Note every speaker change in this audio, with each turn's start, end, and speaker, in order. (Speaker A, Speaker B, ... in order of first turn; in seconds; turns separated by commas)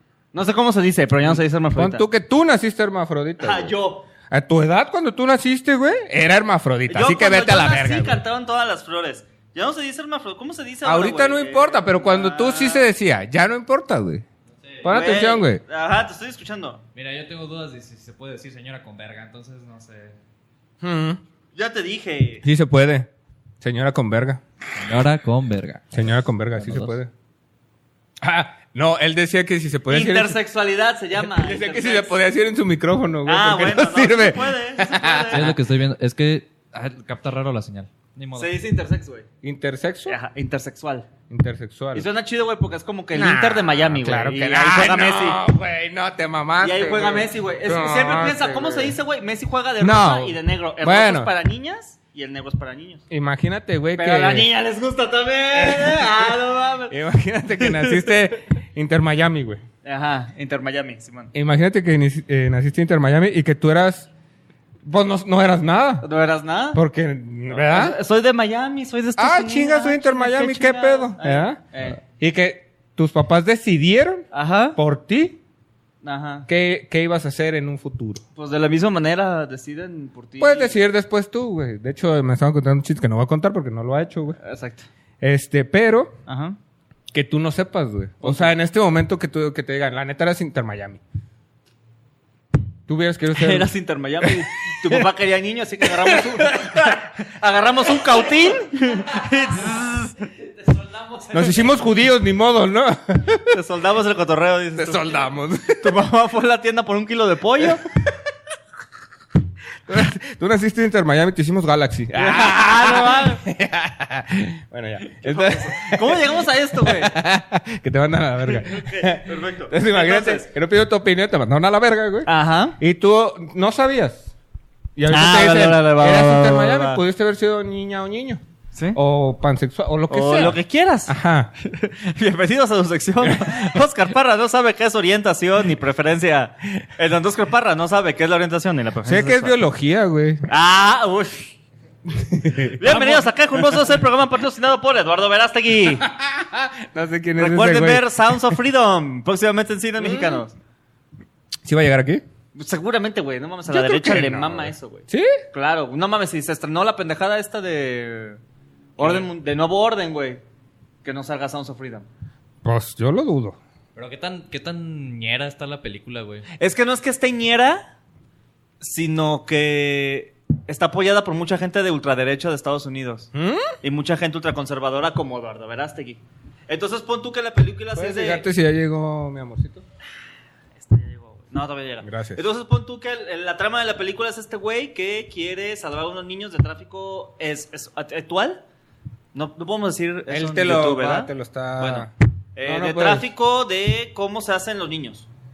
Speaker A: 0.3-2.0, Speaker B: 1.3-3.7, Speaker A: 3.4-4.1, Speaker B: 4.3-8.2, Speaker A: 6.9-12.9, Speaker B: 10.8-14.2, Speaker B: 14.8-15.6, Speaker A: 14.9-16.8, Speaker C: 16.9-20.2, Speaker B: 20.8-21.2, Speaker A: 21.6-22.4, Speaker B: 22.4-23.1, Speaker B: 23.6-24.4, Speaker C: 24.8-25.9, Speaker B: 25.9-27.1, Speaker C: 26.6-27.0, Speaker B: 28.2-30.4, Speaker A: 29.9-32.2, Speaker B: 31.2-35.5, Speaker A: 33.2-35.6, Speaker C: 35.3-38.5, Speaker A: 38.4-39.2, Speaker B: 39.4-40.2, Speaker A: 40.1-41.1, Speaker B: 41.3-42.1, Speaker A: 42.0-45.4, Speaker B: 43.1-49.0, Speaker A: 46.6-53.0, Speaker B: 49.8-51.3, Speaker B: 53.1-54.5, Speaker A: 54.0-57.0, Speaker B: 55.5-56.4, Speaker B: 56.9-59.6, Speaker A: 57.6-58.2, Speaker A: 59.8-61.3, Speaker B: 61.3-64.1, Speaker B: 64.8-66.1, Speaker A: 66.0-66.8, Speaker B: 66.7-68.0, Speaker A: 67.5-72.0, Speaker B: 69.2-74.2, Speaker A: 74.3-74.8, Speaker B: 74.8-75.4, Speaker A: 76.0-76.5, Speaker B: 76.5-78.2, Speaker A: 78.4-80.7, Speaker B: 80.4-84.4, Speaker A: 84.4-84.9, Speaker B: 85.2-86.2, Speaker A: 86.2-86.6, Speaker B: 87.1-91.0, Speaker A: 88.2-88.5, Speaker B: 92.9-93.7, Speaker A: 93.3-100.2, Speaker B: 94.2-95.0, Speaker B: 95.8-97.0, Speaker C: 99.2-99.7, Speaker C: 100.4-101.7, Speaker B: 101.3-103.6, Speaker A: 103.5-105.2, Speaker B: 104.8-106.0, Speaker A: 105.8-107.8, Speaker B: 109.9-124.3, Speaker A: 112.1-113.4, Speaker A: 115.2-117.1, Speaker A: 118.5-120.5, Speaker A: 122.2-122.8, Speaker B: 125.0-128.4, Speaker A: 125.1-127.0, Speaker B: 128.9-131.5, Speaker A: 130.1-139.6, Speaker B: 133.2-133.6, Speaker B: 139.1-140.4, Speaker A: 140.5-141.5, Speaker B: 142.1-143.8, Speaker A: 142.8-146.1, Speaker B: 146.0-148.5, Speaker A: 147.4-150.5, Speaker B: 150.0-150.4, Speaker B: 151.6-152.2, Speaker A: 152.5-158.4, Speaker B: 153.7-155.3, Speaker A: 159.0-160.4, Speaker B: 159.0-159.2, Speaker A: 161.0-162.1, Speaker B: 162.6-163.6, Speaker C: 164.0-166.5, Speaker A: 166.6-167.8, Speaker A: 168.8-173.3, Speaker B: 173.3-173.8, Speaker A: 173.8-178.4, Speaker B: 177.9-179.8, Speaker A: 180.8-188.6, Speaker B: 182.0-182.4, Speaker A: 189.3-195.3, Speaker B: 190.3-192.1, Speaker B: 192.6-193.3